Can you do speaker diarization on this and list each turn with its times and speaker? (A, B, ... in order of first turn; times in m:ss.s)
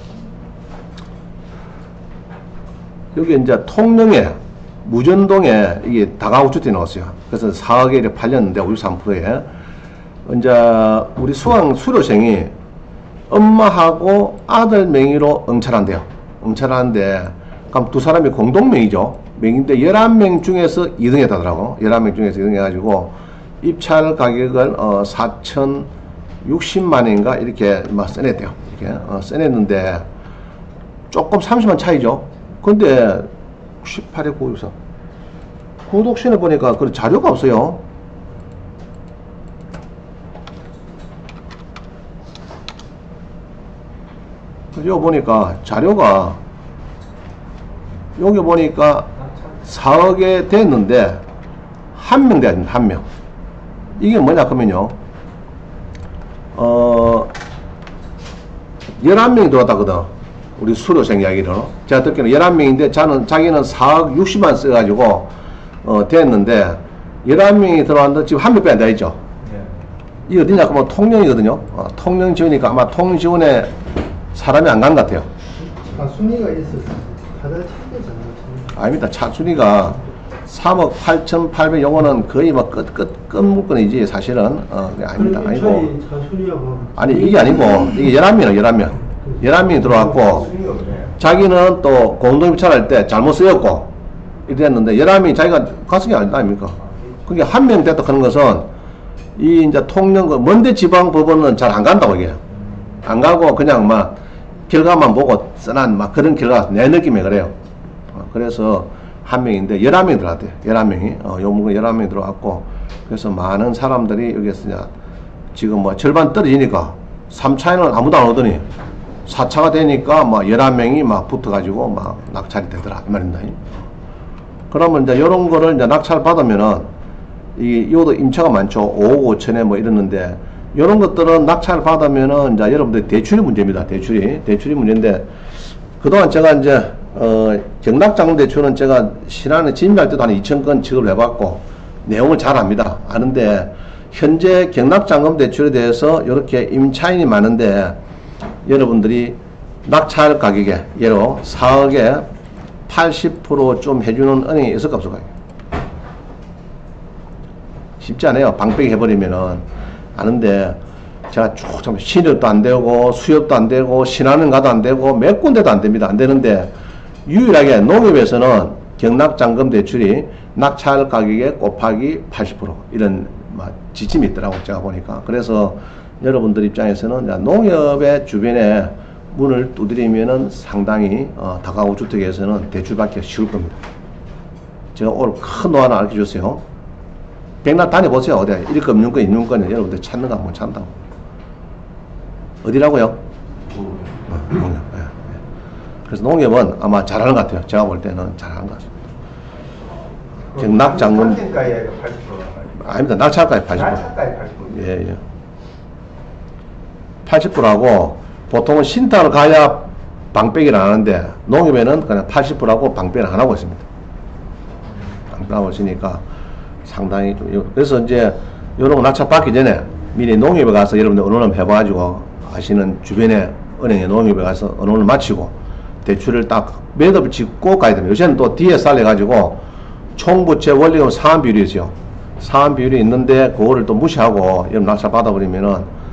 0:03.1-0:09.4 A
0:10.2-0:12.5 A
0:13.3-0:25.9 A
0:26.4-0:30.0 A
0:31.1-0:33.3 A
0:33.8-0:34.7 A
0:35.9-0:37.8 A
0:44.7-0:46.4 A
0:48.2-0:51.2 A
0:51.9-0:53.0 A
0:54.0-0:54.9 A
0:56.5-0:57.3 A
0:59.0-1:05.3 A
1:05.8-1:09.2 A
1:10.3-1:13.7 A
1:14.3-1:15.3 A
1:15.7-1:18.7 B
1:18.7-1:25.9 A
1:25.2-1:27.6 B
1:27.0-1:30.5 A
1:29.3-1:31.0 B
1:31.2-1:33.9 A
1:34.5-1:38.7 A
1:39.4-1:42.4 A
1:43.0-1:44.2 A
1:44.7-1:47.5 A
1:48.1-1:54.9 A
1:55.5-1:58.6 A
1:59.2-2:03.7 A
2:04.7-2:06.9 A
2:07.6-2:15.3 A
2:16.0-2:28.0 A
2:28.6-2:32.3 A
2:32.9-2:35.3 A
2:38.0-2:39.6 A
2:40.1-2:46.7 A
2:47.2-3:03.8 A
3:04.9-3:06.6 A
3:07.6-3:10.9 A
3:12.6-3:13.2 A
3:14.3-3:15.4 A
3:16.1-3:18.9 A
3:20.5-3:21.6 A
3:20.9-3:22.7 C
3:22.7-3:25.2 A
3:24.0-3:24.7 C
3:27.2-3:33.8 A
3:35.3-3:36.2 A
3:36.8-3:49.6 A
3:50.2-3:55.9 A